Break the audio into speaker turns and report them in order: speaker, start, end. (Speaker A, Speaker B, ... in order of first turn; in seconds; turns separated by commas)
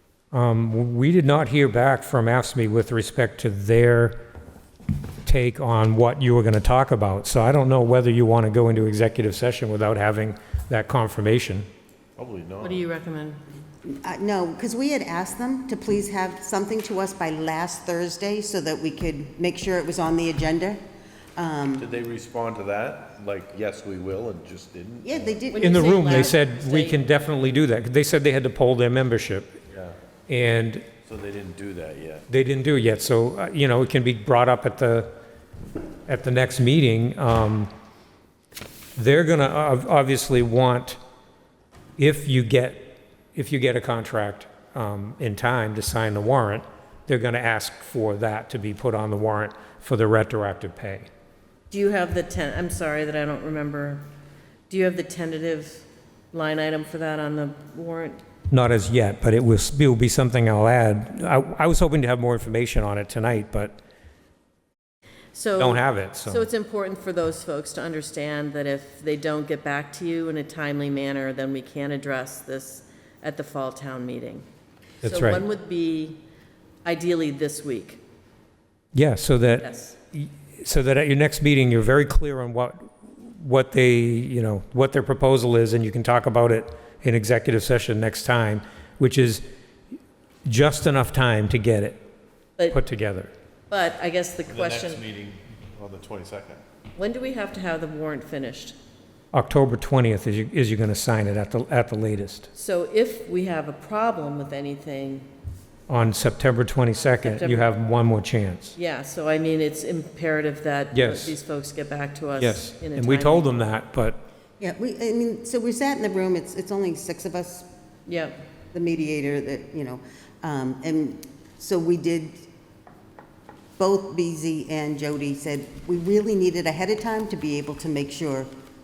Speaker A: 0.3-4.2, Speaker A: 5.2-11.7, Speaker B: 12.2-12.9, Speaker C: 12.6-13.4, Speaker D: 13.8-20.8, Speaker D: 21.4-21.9, Speaker B: 21.8-25.4, Speaker D: 25.0-26.4, Speaker C: 25.5-27.0, Speaker A: 25.6-29.6, Speaker B: 29.7-29.9, Speaker A: 30.3-30.9, Speaker B: 31.0-32.3, Speaker A: 32.3-35.1, Speaker A: 36.0-37.7, Speaker A: 39.0-41.0, Speaker A: 42.0-51.1, Speaker C: 51.7-54.0, Speaker C: 54.7-58.2, Speaker A: 58.5-63.8, Speaker C: 65.3-74.4, Speaker A: 65.6-66.5, Speaker A: 75.0-75.4, Speaker C: 75.0-76.2, Speaker C: 76.8-78.0, Speaker A: 78.9-89.4, Speaker C: 79.6-79.9, Speaker A: 90.5-92.0, Speaker A: 92.7-93.3, Speaker C: 93.7-95.0, Speaker B: 94.5-96.6, Speaker C: 96.9-98.8, Speaker A: 99.3-102.5, Speaker C: 102.5-105.3, Speaker A: 105.9-108.7, Speaker C: 107.2-107.7, Speaker C: 108.7-113.5, Speaker A: 110.9-111.3, Speaker A: 112.3-114.2, Speaker D: 114.6-117.7, Speaker C: 118.0-118.3, Speaker D: 118.7-122.5, Speaker D: 123.8-128.5